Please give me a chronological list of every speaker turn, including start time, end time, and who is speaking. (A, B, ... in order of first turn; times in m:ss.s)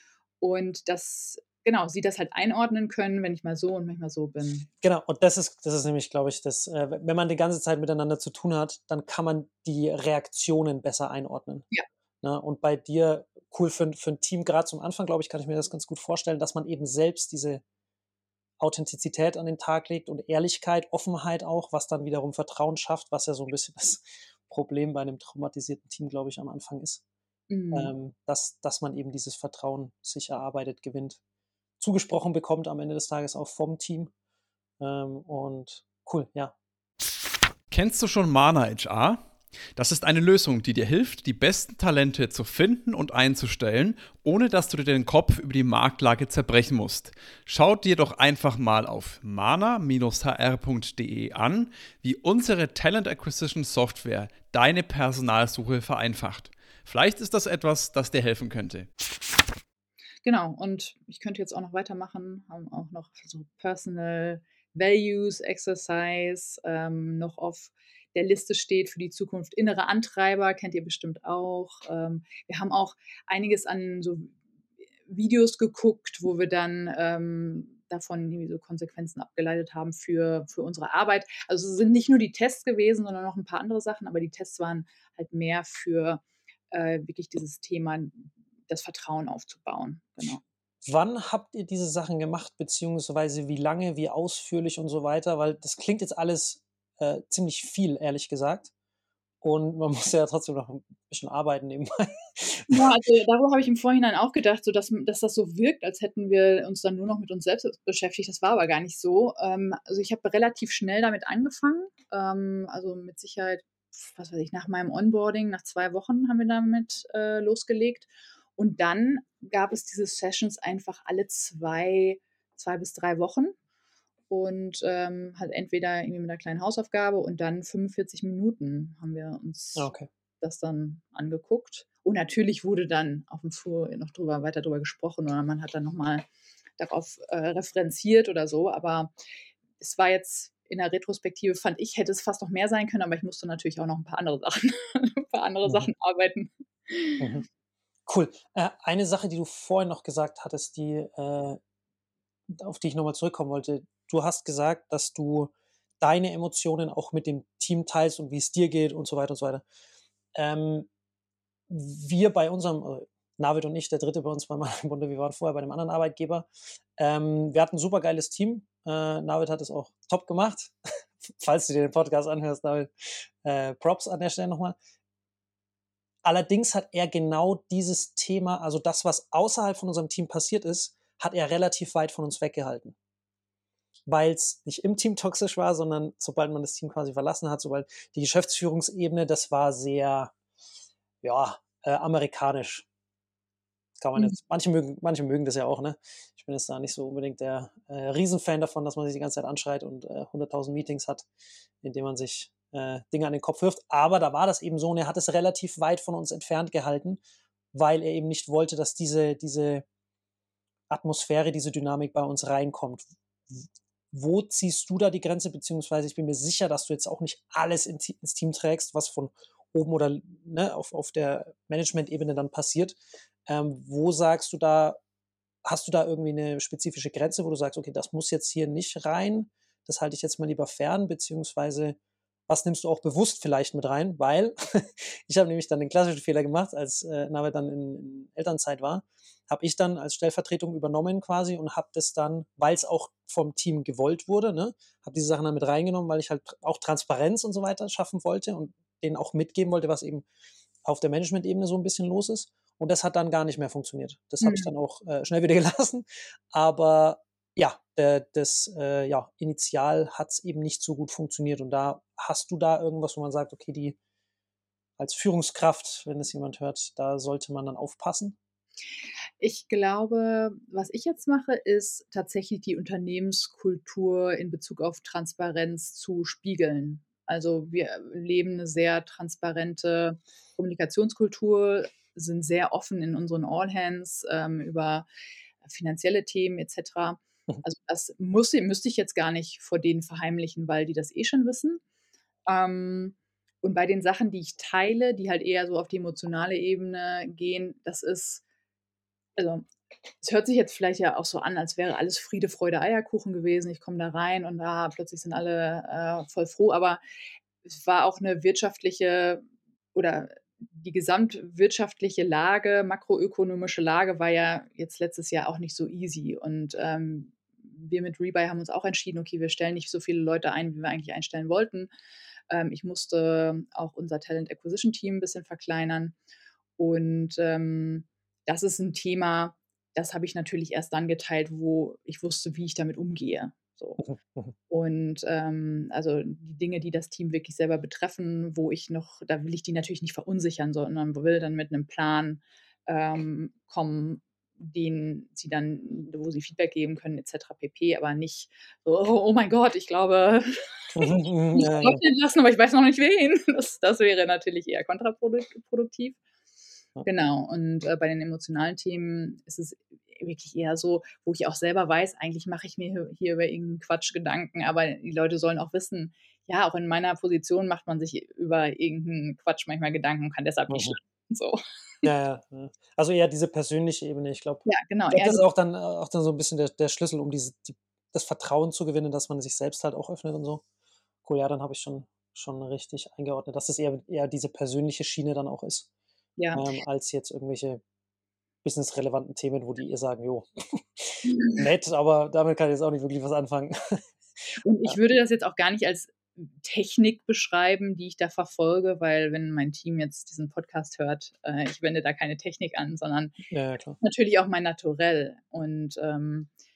0:00.4-0:04.7 A
0:04.8-0:11.7 B
0:12.2-0:17.6 B
0:18.6-0:27.0 B
0:27.5-0:27.9 A
0:27.7-0:31.2 B
0:31.8-0:34.1 B
0:34.8-0:36.5 B
0:37.7-0:39.2 C
0:39.8-0:58.9 C
1:00.2-1:14.3 A
1:15.1-1:30.4 A
1:30.9-1:38.7 B
1:39.4-1:42.9 B
1:42.7-2:03.5 A
2:04.3-2:09.9 A
2:09.8-2:10.1 B
2:10.4-2:16.2 A
2:16.8-2:19.1 A
2:19.8-2:27.3 A
2:25.6-2:25.9 B
2:27.2-2:27.4 B
2:28.1-2:31.6 B
2:32.5-2:39.6 B
2:40.4-2:40.9 B
2:41.7-2:50.8 B
2:51.3-2:54.8 B
2:56.2-3:02.9 B
3:04.1-3:10.3 B
3:11.2-3:12.8 B
3:14.0-3:21.3 B
3:21.8-3:27.2 B
3:27.7-3:29.8 B
3:30.9-3:33.5 B
3:34.1-3:45.0 B
3:45.6-3:52.0 B
3:52.5-4:10.2 B
4:10.8-4:24.0 B
4:14.4-4:14.7 A
4:25.0-4:28.4 B
4:29.4-4:45.0 A
4:45.6-4:51.8 A
4:52.5-4:58.4 A
4:59.4-4:59.7 A
5:00.2-5:07.0 A
5:07.6-5:09.4 A
5:09.9-5:21.9 A
5:22.5-5:26.2 A
5:26.8-5:34.0 A
5:34.0-5:34.5 B
5:34.7-5:56.2 A
5:50.9-5:52.0 B
5:57.0-6:12.1 A
6:10.7-6:11.0 B
6:12.0-6:20.6 B
6:14.6-6:15.4 A
6:21.2-6:25.9 B
6:26.4-6:26.6 A
6:26.5-6:27.8 B
6:28.6-6:35.0 B
6:31.3-6:31.6 A
6:34.6-6:43.3 A
6:43.5-6:44.0 B
6:44.0-6:46.5 A